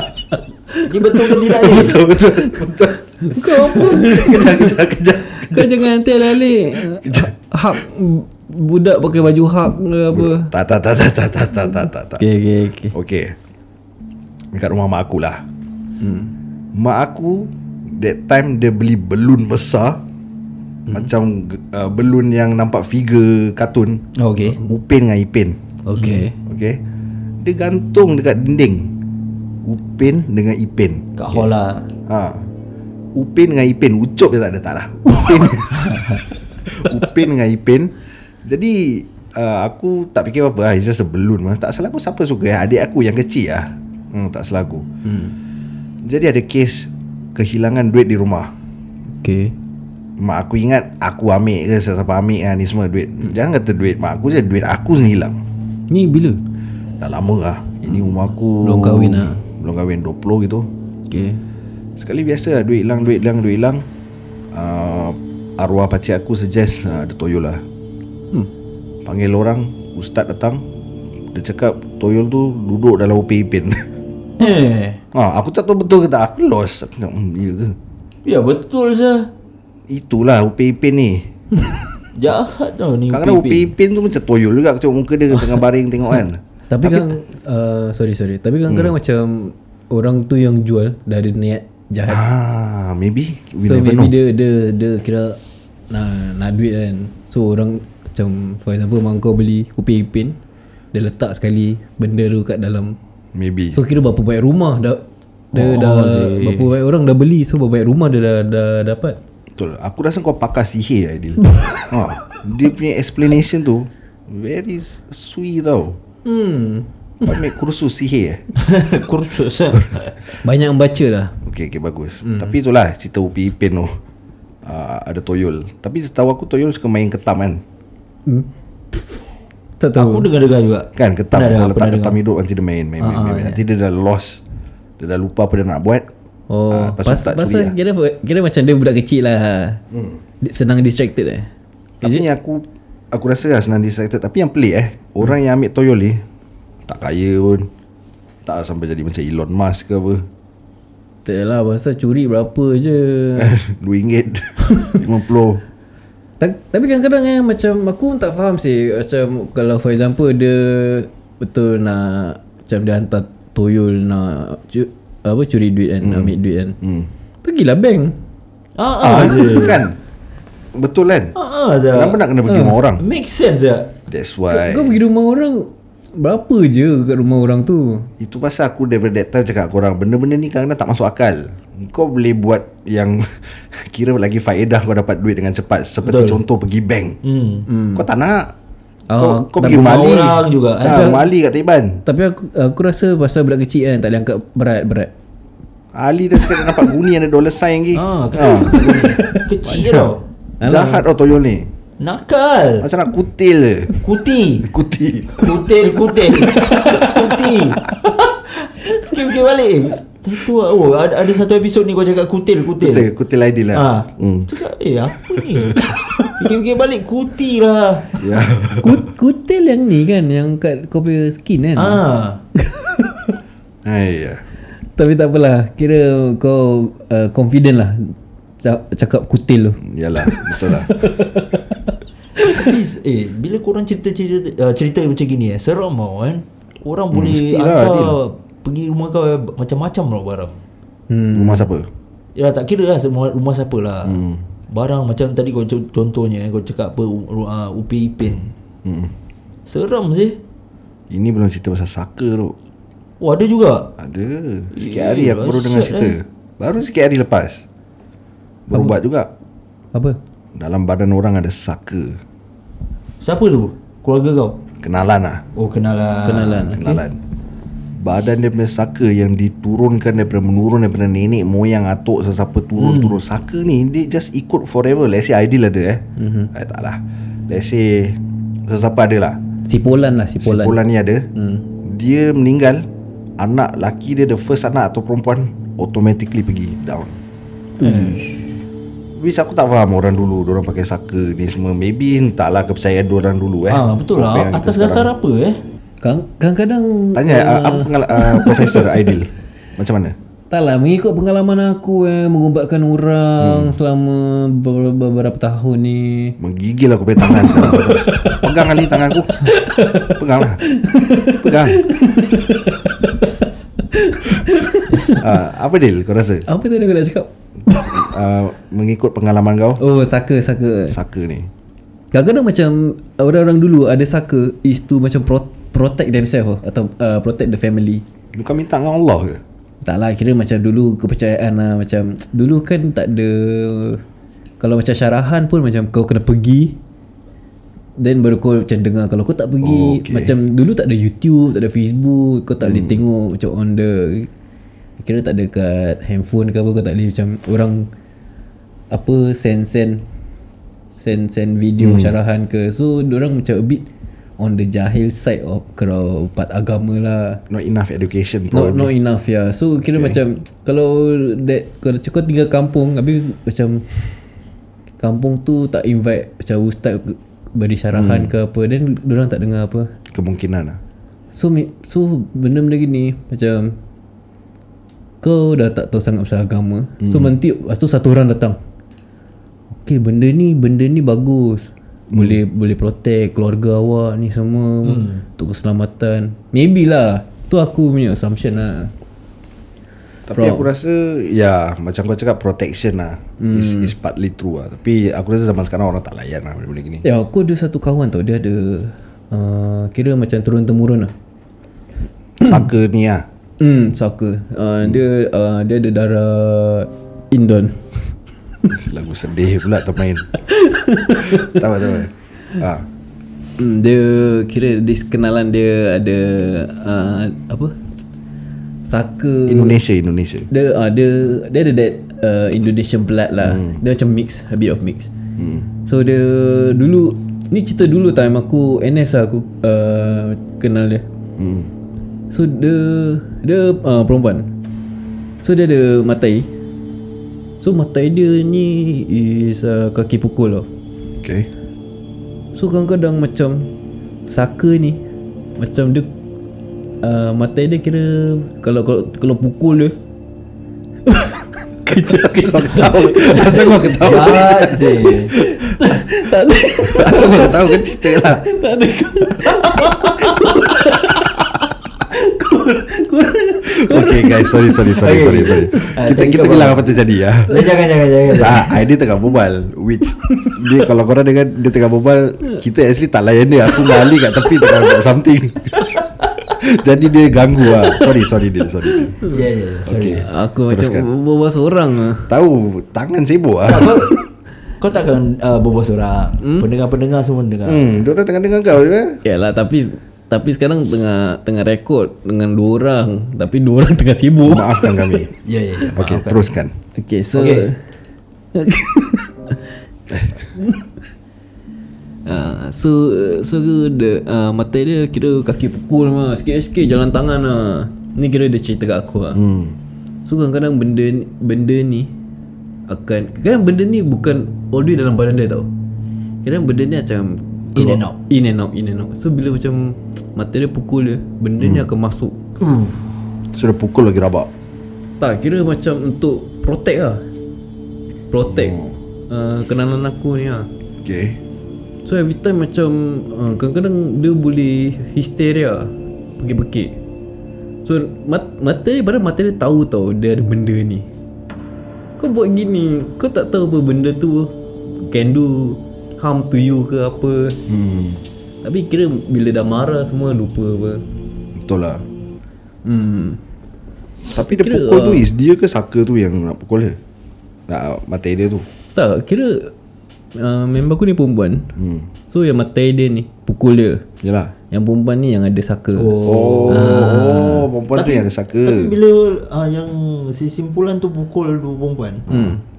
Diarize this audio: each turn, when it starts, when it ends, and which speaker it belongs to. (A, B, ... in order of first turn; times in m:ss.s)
0:00.7-0:01.8 A
0:00.9-0:02.0 B
0:01.5-0:05.9 C
0:02.3-0:02.6 A
0:03.2-0:04.8 A
0:05.4-0:10.5 A
0:06.8-0:07.3 C
0:10.1-0:12.2 C
0:12.2-0:13.0 A
0:12.9-0:13.4 C
0:14.5-0:15.4 C
0:16.0-0:16.3 A
0:16.7-0:20.0 C
0:20.9-0:24.0 C
0:24.2-0:24.6 B
0:24.6-0:25.6 C
0:25.9-0:26.4 A
0:26.0-0:26.3 B
0:26.4-0:26.8 C
0:27.4-0:28.9 C
0:29.6-0:31.1 C
0:31.2-0:31.9 B
0:32.1-0:32.5 C
0:33.2-0:36.1 C
0:35.7-0:36.2 B
0:36.7-0:37.9 C
0:38.4-0:44.9 C
0:45.0-0:45.4 A
0:46.0-0:48.5 C
0:49.2-0:49.5 A
0:50.2-0:55.4 C
0:55.9-0:56.4 A
0:57.0-1:00.7 C
0:58.6-0:59.4 A
1:01.1-1:01.4 A
1:02.0-1:03.8 C
1:04.5-1:07.6 C
1:09.0-1:10.6 C
1:11.3-1:13.9 C
1:14.4-1:15.0 B
1:15.1-1:17.8 C
1:18.3-1:19.3 B
1:19.9-1:21.3 C
1:22.2-1:23.7 B
1:23.1-1:27.1 C
1:26.7-1:32.2 A
1:28.7-1:29.0 C
1:32.0-1:34.2 C
1:33.6-1:35.4 A
1:35.9-1:40.4 A
1:40.9-1:43.0 A
1:43.4-1:43.8 C
1:43.7-1:49.2 A
1:45.5-1:46.7 B
1:49.6-1:56.0 C
1:56.2-1:57.5 A
1:57.2-1:58.4 C
1:58.6-2:00.1 B
2:00.4-2:01.4 A
2:01.4-2:04.0 C
2:02.2-2:02.5 A
2:04.6-2:07.6 C
2:08.3-2:09.2 A
2:09.8-2:10.3 A
2:10.0-2:12.2 B
2:11.0-2:14.4 C
2:13.0-2:13.6 B
2:15.0-2:16.1 C
2:16.5-2:19.8 A
2:16.7-2:17.8 C
2:19.9-2:20.2 C
2:20.4-2:21.5 A
2:22.0-2:26.2 C
2:26.9-2:27.7 C
2:28.4-2:30.3 C
2:31.2-2:33.6 A
2:33.4-2:35.6 C
2:34.7-2:35.0 A
2:36.4-2:46.8 A
2:46.0-2:47.1 C
2:47.4-2:48.2 A
2:48.8-2:49.8 B
2:49.0-2:50.0 C
2:50.8-2:51.3 C
2:51.4-2:52.2 B
2:51.9-2:53.0 C
2:52.5-2:52.8 A
2:53.0-2:53.9 B
2:54.1-2:55.0 C
2:54.5-2:58.1 A
2:58.2-3:07.2 C
3:06.0-3:06.4 B
3:07.2-3:07.7 B
3:07.7-3:08.1 A
3:07.9-3:08.5 C
3:09.1-3:10.2 A
3:09.2-3:12.0 C
3:09.7-3:11.2 B
3:10.8-3:11.2 A
3:12.1-3:15.1 A
3:15.9-3:18.8 C
3:16.5-3:16.9 A
3:17.9-3:20.2 B
3:18.5-3:19.4 A
3:19.7-3:20.1 C
3:20.6-3:21.0 A
3:20.6-3:21.7 C
3:22.0-3:22.9 B
3:22.8-3:24.0 C
3:24.0-3:24.7 B
3:24.6-3:25.6 C
3:25.4-3:33.1 B
3:26.5-3:27.4 A
3:32.8-3:34.5 C
3:33.7-3:38.3 B
3:35.5-3:35.9 C
3:38.2-3:39.1 C
3:38.8-3:42.0 A
3:41.8-3:42.4 B
3:42.6-3:43.4 A
3:43.8-3:44.4 C
3:45.0-3:52.7 A
3:49.8-3:51.0 C
3:52.4-4:00.6 B
3:57.1-3:58.2 C
4:01.1-4:01.7 A
4:01.3-4:01.9 C
4:02.4-4:08.5 B
4:04.0-4:04.4 C
4:08.8-4:09.1 C
4:09.7-4:10.4 B
4:11.1-4:12.6 C
4:13.2-4:13.9 B
4:14.0-4:17.6 C
4:14.7-4:16.1 B
4:18.7-4:19.3 C
4:20.6-4:22.2 C
4:23.2-4:24.6 B
4:24.8-4:25.4 C
4:25.6-4:26.8 B
4:26.2-4:27.0 A
4:26.6-4:27.2 C
4:28.0-4:39.4 C
4:32.8-4:33.2 B
4:36.2-4:36.5 A
4:39.6-4:40.8 A
4:40.4-4:41.3 C
4:41.4-4:41.7 A
4:41.8-4:42.9 C
4:43.4-4:47.2 C
4:47.8-4:48.4 A
4:47.8-4:48.2 B
4:49.2-4:55.1 C
4:53.7-4:55.6 B
4:56.0-4:59.1 A
4:57.2-5:00.2 C
5:00.5-5:06.4 A
5:03.4-5:03.8 C
5:06.4-5:09.5 C
5:07.2-5:08.7 A
5:09.3-5:15.4 A
5:10.2-5:10.6 C
5:11.4-5:11.8 C
5:15.2-5:16.5 C
5:16.5-5:18.1 A
5:17.9-5:19.8 C
5:19.8-5:21.0 A
5:20.9-5:21.5 C
5:22.1-5:28.0 A
5:28.3-5:29.4 C
5:29.8-5:34.0 A
5:34.6-5:36.8 A
5:38.0-5:44.3 A
5:39.6-5:40.3 C
5:42.6-5:43.0 C
5:45.0-5:47.9 A
5:48.9-5:50.0 A
5:51.0-5:53.9 A
5:51.8-5:52.2 C
5:54.4-5:57.4 A
5:57.5-5:58.9 C
5:58.5-6:03.9 A
5:59.9-6:00.2 C
6:05.0-6:09.9 A
6:07.9-6:08.3 C
6:10.1-6:10.8 C
6:11.3-6:13.8 A
6:15.2-6:18.6 A
6:17.0-6:17.4 C
6:19.7-6:28.9 A
6:22.1-6:22.4 C
6:24.8-6:25.2 B
6:30.3-6:37.0 C
6:30.3-6:30.7 A
6:33.4-6:33.9 A
6:37.0-6:41.1 A
6:42.4-6:43.2 C
6:43.6-6:47.8 A
6:48.7-6:50.3 C
6:50.4-6:51.6 A
6:51.2-6:52.9 C
6:53.6-6:57.8 A
6:58.9-6:59.8 A
6:59.5-7:00.5 C
7:00.5-7:05.1 A
7:03.4-7:03.8 C
7:05.4-7:05.7 C
7:05.9-7:11.0 A
7:11.4-7:11.7 C
7:12.3-7:14.5 A
7:15.4-7:16.5 A
7:17.6-7:20.7 A
7:21.2-7:21.5 C
7:22.6-7:23.7 A
7:24.3-7:25.0 A
7:25.6-7:26.1 A
7:27.0-7:30.0 A
7:31.1-7:34.6 A
7:31.9-7:35.7 C
7:34.0-7:35.3 B
7:35.3-7:41.3 A
7:36.8-7:38.5 C
7:39.6-7:40.5 B
7:42.0-7:44.9 A
7:43.7-7:47.5 C
7:45.0-7:48.8 B
7:45.6-7:45.9 A
7:47.5-7:47.7 A
7:48.3-7:55.9 C
7:50.2-7:50.7 A
7:53.7-7:55.0 A
7:56.4-7:59.2 C
7:57.7-7:58.2 A
7:58.8-7:59.4 A
7:59.3-8:00.2 B
7:59.9-8:01.1 C
8:00.2-8:02.3 A
8:02.3-8:04.0 C
8:03.7-8:04.1 B
8:04.8-8:07.9 B
8:06.4-8:06.7 A
8:07.7-8:09.2 C
8:09.2-8:15.2 A
8:14.4-8:15.3 C
8:15.4-8:16.4 B
8:15.9-8:16.7 C
8:17.0-8:17.8 A
8:17.3-8:17.7 B
8:18.5-8:19.7 A
8:20.1-8:20.5 C
8:20.6-8:20.8 A
8:22.3-8:29.4 A
8:29.3-8:29.8 C
8:30.3-8:32.1 A
8:32.9-8:35.7 A
8:36.4-8:42.4 A
8:37.8-8:38.2 B
8:41.6-8:41.9 C
8:42.6-8:43.0 B
8:43.5-8:44.5 C
8:45.2-8:47.2 A
8:48.3-8:50.7 A
8:48.5-8:49.0 C
8:51.0-8:51.4 C
8:52.0-8:57.0 A
8:57.8-9:01.1 A
9:02.2-9:07.6 A
9:07.7-9:08.2 C
9:08.6-9:11.0 A
9:11.6-9:12.0 C
9:12.8-9:13.4 A
9:14.3-9:17.0 C
9:14.4-9:15.3 A
9:17.7-9:18.6 C
9:19.0-9:19.7 A
9:20.4-9:21.7 A
9:21.8-9:22.1 C
9:22.3-9:24.1 A
9:24.2-9:24.5 C
9:24.7-9:27.7 A
9:26.0-9:27.0 B
9:26.2-9:28.9 C
9:27.9-9:32.3 B
9:32.3-9:32.6 C
9:32.3-9:32.6 A